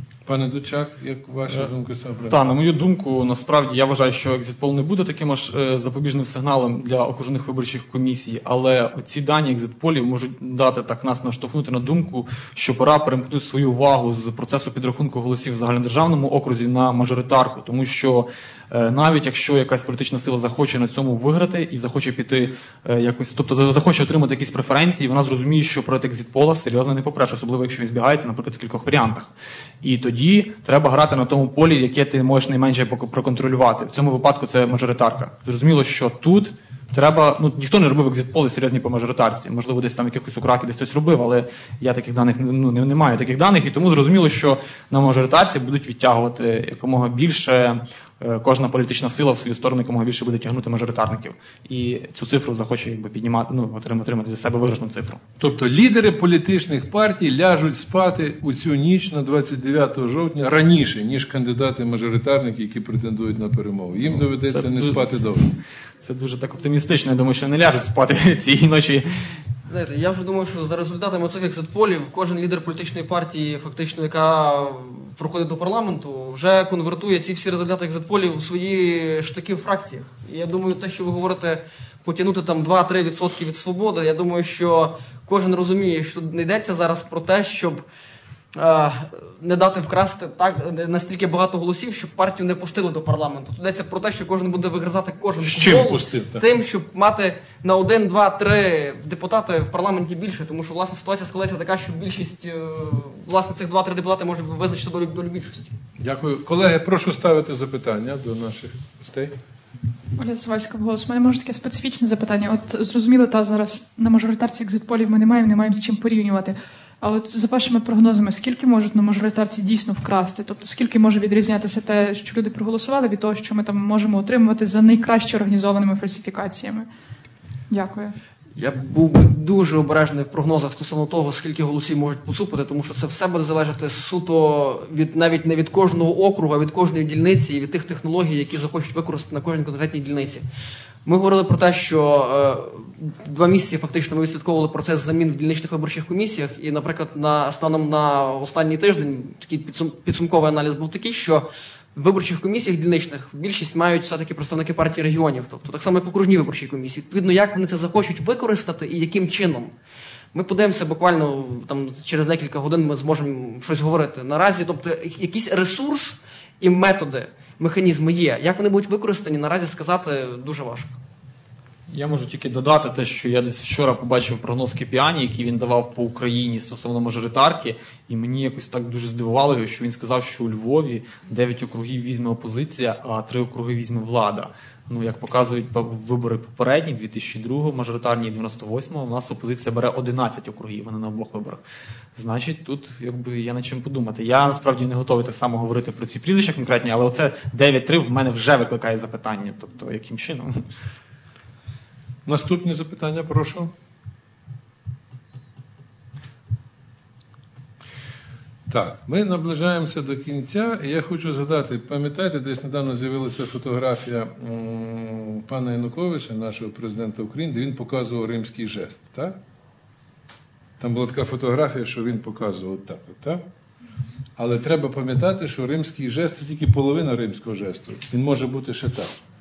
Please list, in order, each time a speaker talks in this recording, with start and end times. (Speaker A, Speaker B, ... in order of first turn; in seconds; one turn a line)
Speaker A: 0.2-2.4
Speaker B: 2.3-29.3
Speaker B: 29.8-55.2
Speaker A: 55.4-65.5
Speaker B: 64.1-69.1
Speaker C: 69.7-87.8
Speaker C: 88.6-105.7
Speaker A: 95.4-96.4
Speaker A: 106.0-109.3
Speaker D: 110.2-126.9
Speaker D: 127.7-128.1
Speaker C: 128.6-140.4
Speaker C: 141.0-159.7
Speaker C: 160.3-171.0
Speaker B: 171.9-191.6
Speaker B: 192.2-200.7
Speaker A: 202.2-203.7
Speaker A: 208.7-219.4
Speaker A: 220.8-223.4
Speaker A: 224.4-229.2